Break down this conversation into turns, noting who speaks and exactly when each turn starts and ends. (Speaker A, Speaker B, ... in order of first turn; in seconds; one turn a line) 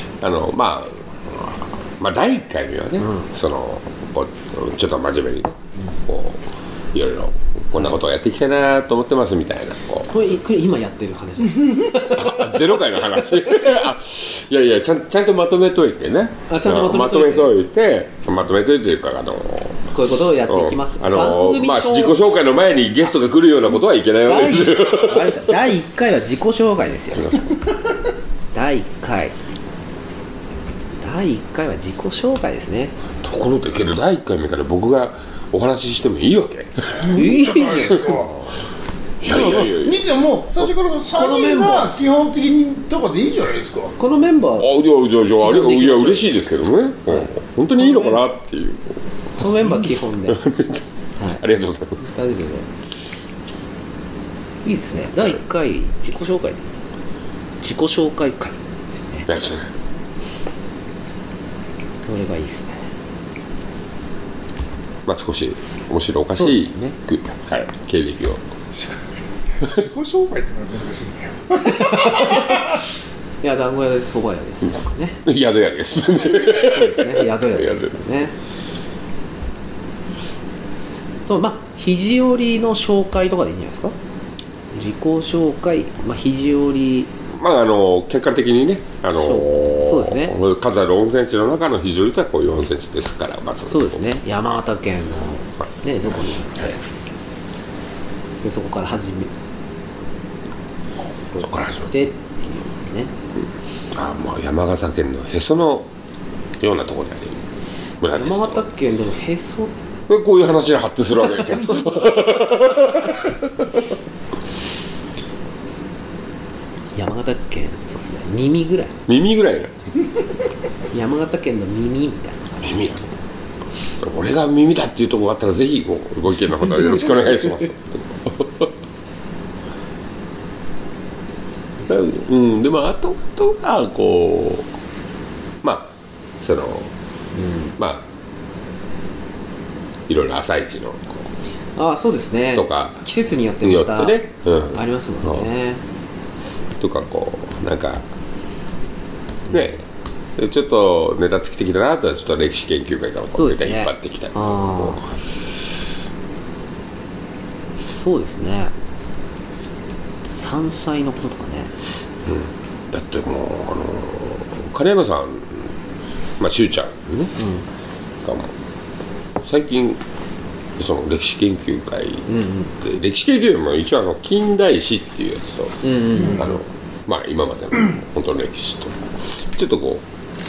Speaker A: 0.2-6.4
Speaker B: 3.0-3.3
Speaker A: 6.9-10.1
Speaker B: 10.1-12.7
Speaker A: 12.1-25.5
Speaker B: 16.5-17.5
Speaker B: 19.9-22.2
Speaker B: 24.2-27.5
Speaker A: 27.2-27.5
Speaker B: 28.5-29.3
Speaker B: 31.0-32.9
Speaker A: 33.2-37.2
Speaker C: 37.0-38.4
Speaker B: 37.1-38.2
Speaker A: 39.2-40.0
Speaker C: 39.2-43.9
Speaker B: 41.1-42.1
Speaker B: 44.0-44.7
Speaker A: 44.6-50.8
Speaker B: 45.3-46.3
Speaker B: 47.1-48.2
Speaker B: 49.4-50.4
Speaker B: 51.2-51.4
Speaker A: 51.4-52.0
Speaker B: 52.0-52.8
Speaker B: 54.6-56.6
Speaker B: 57.6-59.3
Speaker A: 59.3-59.7
Speaker B: 62.0-62.8
Speaker A: 65.0-68.4
Speaker B: 66.3-67.0
Speaker C: 68.7-69.0
Speaker C: 69.6-72.6
Speaker B: 71.6-72.7
Speaker B: 73.4-75.2
Speaker A: 75.2-77.9
Speaker B: 76.2-78.3
Speaker B: 81.3-83.9
Speaker B: 84.7-87.1
Speaker A: 87.3-94.0
Speaker B: 89.2-90.4
Speaker B: 93.7-96.8
Speaker B: 98.4-99.3
Speaker B: 101.3-103.1
Speaker A: 101.4-101.9
Speaker A: 103.9-105.9
Speaker A: 106.6-107.4
Speaker A: 108.0-108.7
Speaker B: 108.1-109.7
Speaker A: 110.1-113.5
Speaker B: 116.9-119.0
Speaker A: 119.1-119.8
Speaker B: 120.9-122.8
Speaker A: 122.6-123.0
Speaker A: 124.0-128.7
Speaker A: 131.9-134.7
Speaker A: 135.6-136.9
Speaker B: 137.3-137.7
Speaker A: 137.8-138.0
Speaker A: 140.1-141.1
Speaker B: 141.8-145.8
Speaker A: 142.5-143.0
Speaker A: 143.6-145.5
Speaker A: 146.8-148.0
Speaker A: 149.5-149.8
Speaker A: 150.4-155.0
Speaker B: 153.3-155.0
Speaker B: 157.9-158.7
Speaker B: 160.3-161.7
Speaker A: 162.2-165.7
Speaker A: 166.4-167.3
Speaker B: 167.4-167.6
Speaker A: 168.2-168.5
Speaker A: 169.4-170.0
Speaker A: 170.8-172.3
Speaker B: 172.3-172.7
Speaker A: 172.8-180.0
Speaker B: 175.8-176.5